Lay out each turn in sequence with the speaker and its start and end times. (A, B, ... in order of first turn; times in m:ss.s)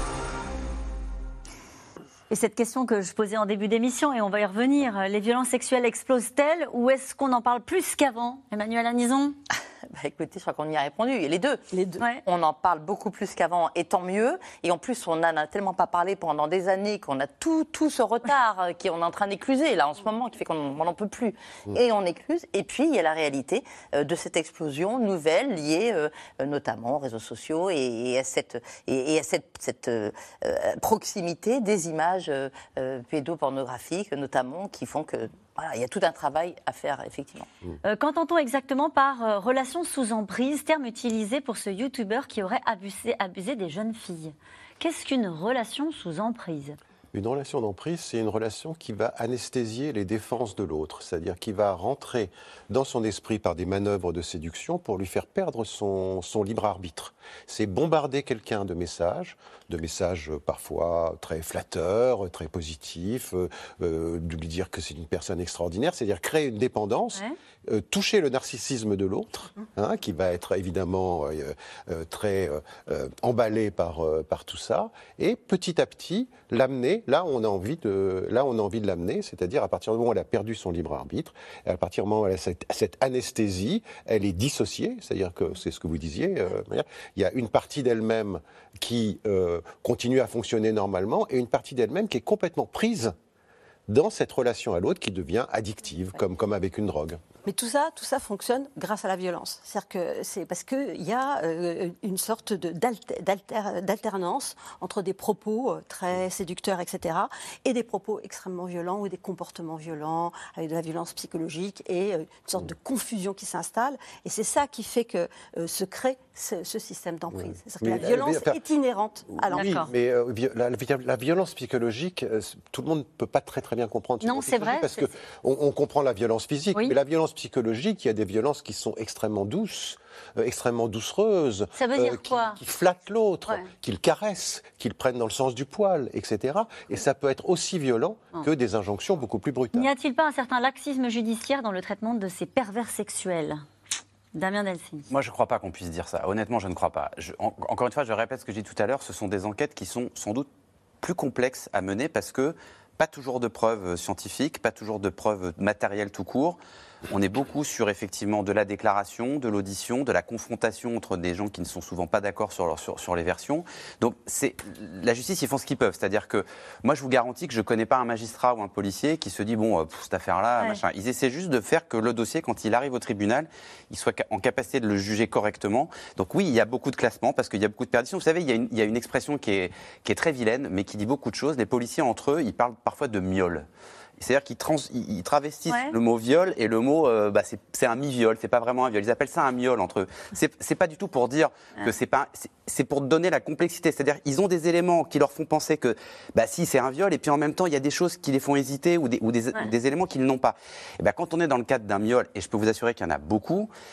0:02.3-0:09.4 A
0:09.9-0:11.6 B
0:11.7-0:12.1 C
0:12.3-0:37.5 B
0:37.8-0:46.8 A
0:47.1-1:33.1 D
1:33.9-1:37.2 D
1:37.4-1:59.8 C
1:57.3-1:58.6 D
1:59.3-2:19.9 D
1:59.6-1:59.9 A
2:04.2-2:05.1 A
2:11.8-2:12.6 A
2:19.7-2:23.6 A
2:24.3-2:25.1 A
2:25.1-2:30.5 E
2:31.0-3:03.7 E
3:04.2-3:23.7 E
3:05.7-3:05.9 A